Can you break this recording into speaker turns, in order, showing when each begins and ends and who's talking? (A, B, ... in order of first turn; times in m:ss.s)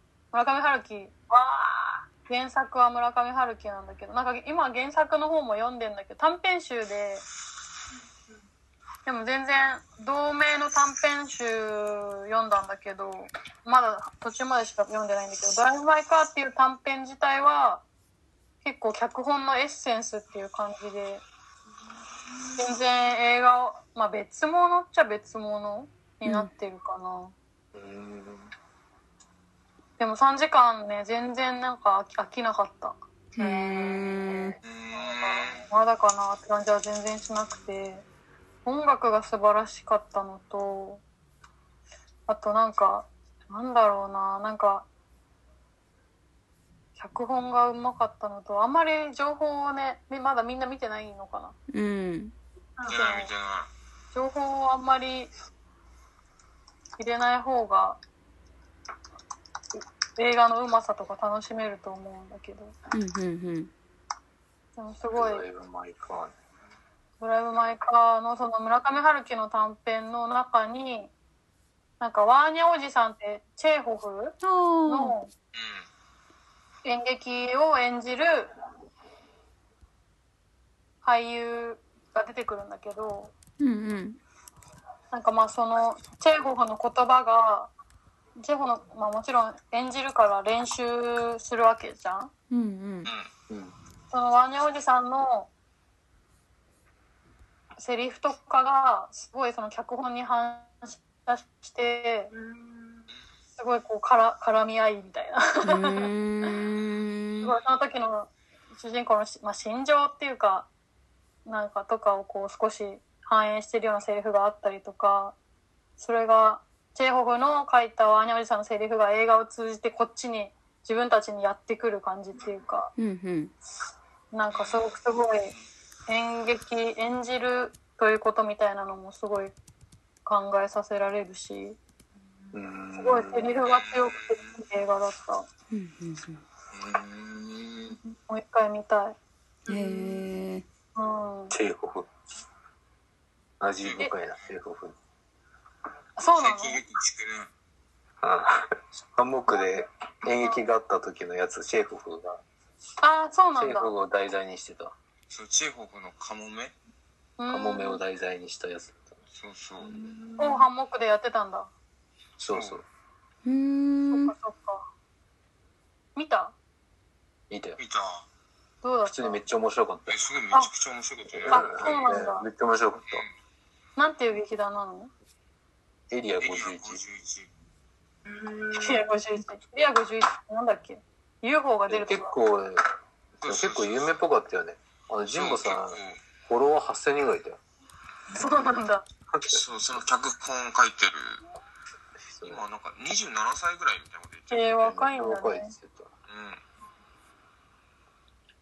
0:00.3-0:01.1 A
0:01.3-0:02.0 B
0:02.3-0:07.2 A
0:09.0-0:17.8 A
0:18.6-0:21.2 A
0:22.6-0:27.3 A
0:27.7-0:28.5 C
0:30.0-0:33.0 A
0:33.3-0:34.6 B
0:33.4-0:34.6 D
0:34.6-0:35.7 E
0:34.9-0:38.0 A
0:38.6-0:41.0 A
0:42.3-0:44.8 A
0:47.0-0:51.6 A
0:51.7-0:52.3 D
0:52.9-0:53.3 A
0:52.9-0:53.7 E
0:54.1-0:55.3 A
0:57.0-0:58.0 A
1:00.2-1:02.7 A
1:02.9-1:03.7 D
1:04.8-1:05.4 A
1:05.1-1:06.3 C
1:07.2-1:11.1 A
1:12.0-1:15.3 A
1:14.4-1:15.2 D
1:15.5-1:15.8 E
1:16.8-1:18.5 A
1:21.0-1:23.3 A
1:23.6-1:24.2 D
1:25.1-1:27.7 A
1:28.4-1:32.3 A
1:32.5-1:33.1 D
1:34.1-1:35.5 A
1:37.8-1:42.3 A
1:42.3-1:43.1 B
1:43.6-1:46.1 A
1:45.6-1:47.5 D
1:47.4-1:50.7 A
1:51.4-1:55.3 A
1:56.0-2:02.9 A
2:03.0-2:03.5 D
2:04.3-2:05.5 A
2:04.5-2:05.0 E
2:06.1-2:09.5 A
2:10.2-2:11.8 A
2:12.5-2:13.6 C
2:12.9-2:15.4 A
2:13.6-2:14.6 E
2:15.7-2:16.4 D
2:16.7-2:18.0 E
2:18.1-2:19.2 A
2:19.6-2:20.3 B
2:19.7-2:20.6 D
2:20.9-2:21.5 A
2:21.5-2:22.1 C
2:23.6-2:25.0 C
2:23.8-2:24.1 E
2:26.2-2:26.8 A
2:26.3-2:27.5 E
2:28.2-2:32.4 C
2:33.0-2:33.9 A
2:33.6-2:34.9 C
2:35.3-2:36.8 E
2:37.4-2:38.0 A
2:37.5-2:39.1 C
2:39.3-2:40.0 E
2:39.8-2:40.6 B
2:40.4-2:41.7 A
2:42.4-2:42.8 C
2:42.5-2:42.8 E
2:43.4-2:44.3 D
2:44.1-2:44.9 A
2:46.2-2:46.5 A
2:47.5-2:47.8 C
2:47.8-2:48.2 E
2:48.8-2:49.4 A
2:49.1-2:50.2 C
2:50.1-2:52.2 E
2:51.3-2:53.2 C
2:51.5-2:52.5 A
2:54.0-2:55.1 A
2:56.1-2:57.0 C
2:56.4-2:57.5 E
2:58.2-2:59.0 B
2:58.8-3:02.3 A
3:01.9-3:02.8 C
3:03.4-3:04.2 E
3:03.4-3:07.6 C
3:05.3-3:06.2 E
3:08.3-3:09.0 A
3:09.3-3:09.6 C
3:09.5-3:11.4 E
3:12.3-3:12.6 C
3:12.4-3:14.8 E
3:14.5-3:15.7 A
3:14.8-3:16.1 C
3:16.3-3:16.6 E